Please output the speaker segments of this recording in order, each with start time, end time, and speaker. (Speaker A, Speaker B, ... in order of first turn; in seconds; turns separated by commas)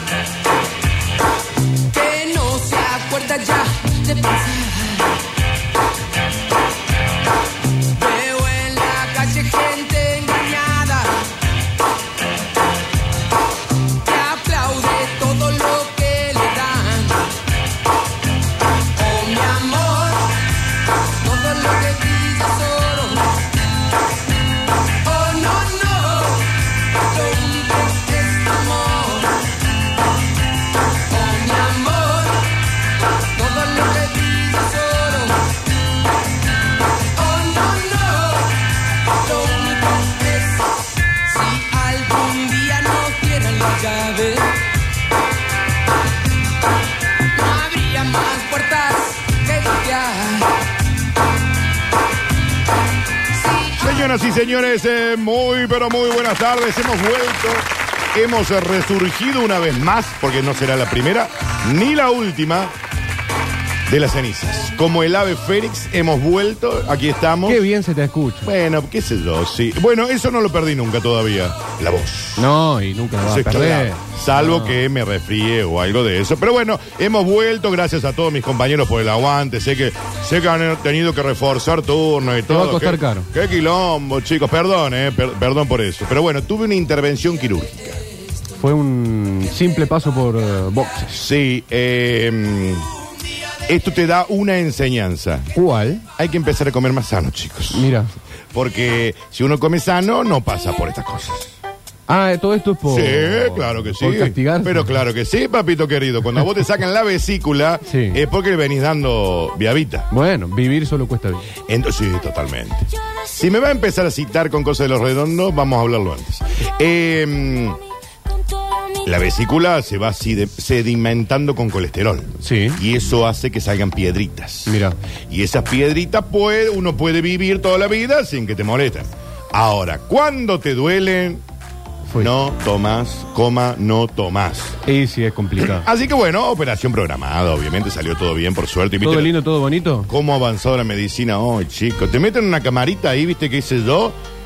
Speaker A: 1.9-5.1, Speaker A: 7.9-11.3, Speaker A: 14.0-17.3, Speaker A: 18.9-20.3, Speaker A: 21.2-23.4, Speaker A: 25.0-29.5, Speaker A: 31.1-32.5, Speaker A: 33.3-35.6, Speaker A: 37.1-44.6, Speaker A: 47.3-50.5, Speaker A: 53.4-54.0, Speaker B: 53.8-62.7, Speaker B: 63.9-67.6, Speaker C: 67.5-68.5, Speaker B: 68.4-72.5, Speaker C: 72.4-74.8, Speaker B: 73.2-88.0, Speaker C: 82.5-83.3, Speaker C: 88.6-91.2, Speaker B: 91.1-92.8, Speaker B: 93.7-95.5, Speaker C: 95.5-96.0, Speaker B: 96.2-97.9, Speaker C: 97.7-98.1, Speaker B: 98.5-101.5, Speaker C: 102.1-104.9, Speaker B: 102.9-110.1, Speaker C: 107.8-108.2, Speaker C: 110.1-111.5, Speaker B: 111.7-117.8, Speaker B: 119.0-124.8, Speaker C: 122.4-122.8, Speaker C: 124.7-124.9, Speaker B: 125.3-131.4, Speaker C: 132.1-132.3, Speaker B: 132.2-134.8, Speaker C: 134.8-135.9, Speaker B: 135.6-139.3, Speaker C: 139.0-140.1, Speaker B: 140.1-144.2